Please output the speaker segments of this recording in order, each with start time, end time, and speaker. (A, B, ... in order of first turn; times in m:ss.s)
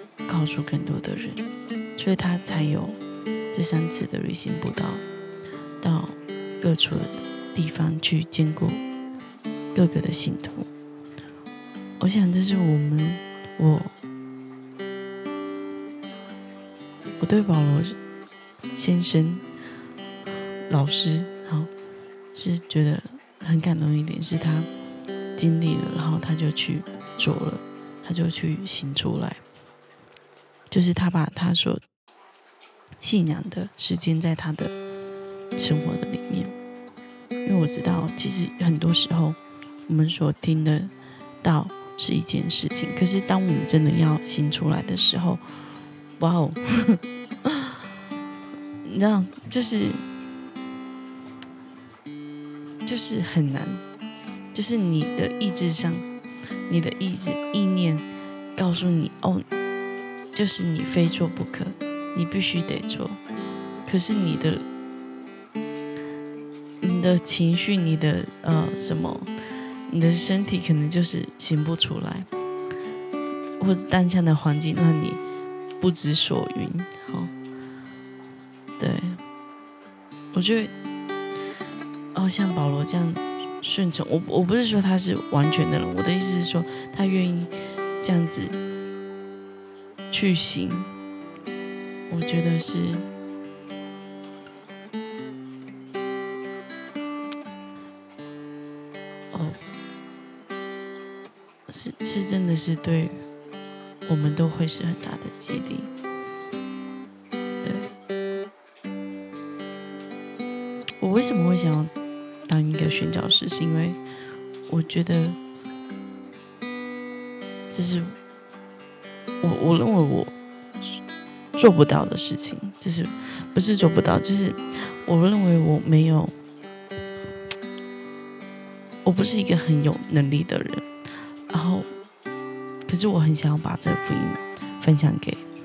0:00.2-0:01.4 A
0:02.0-0:03.0 A
0:03.5-0:05.0 A
0:05.8-0:08.8 A
0:09.7-0:10.7 A
0:12.0-0:13.9 A
0:17.2-0:18.0 A
0:18.7-0:19.4 A
0:20.7-0:21.7 A
0:22.3-0:24.7 A
0:25.4-0:29.4 A
0:30.7-0:31.8 A
0:33.0-0:34.8 A
0:35.6-0:36.5 A
0:37.4-0:45.4 A
0:46.2-0:47.7 A
0:48.8-0:50.0 A
0:52.8-0:53.8 A
0:54.5-0:56.0 A
0:56.7-0:58.0 A
0:58.6-0:59.4 A
1:00.3-1:03.2 A
1:03.8-1:04.6 A
1:06.8-1:09.3 A
1:09.9-1:12.3 A
1:13.6-1:15.2 A
1:15.8-1:17.3 A
1:18.8-1:19.2 A
1:20.3-1:20.7 A
1:22.1-1:28.6 A
1:30.1-1:30.9 A
1:32.1-1:33.1 A
1:39.3-1:39.6 A
1:41.7-1:43.2 A
1:44.0-1:45.9 A
1:47.6-1:47.9 A
1:51.0-1:51.9 A
1:52.5-1:54.0 A
1:54.7-1:55.4 A
1:57.7-1:58.1 A
1:59.4-2:01.0 A
2:01.5-2:06.3 A
2:09.0-2:10.8 A
2:11.5-2:11.9 A
2:12.8-2:15.4 A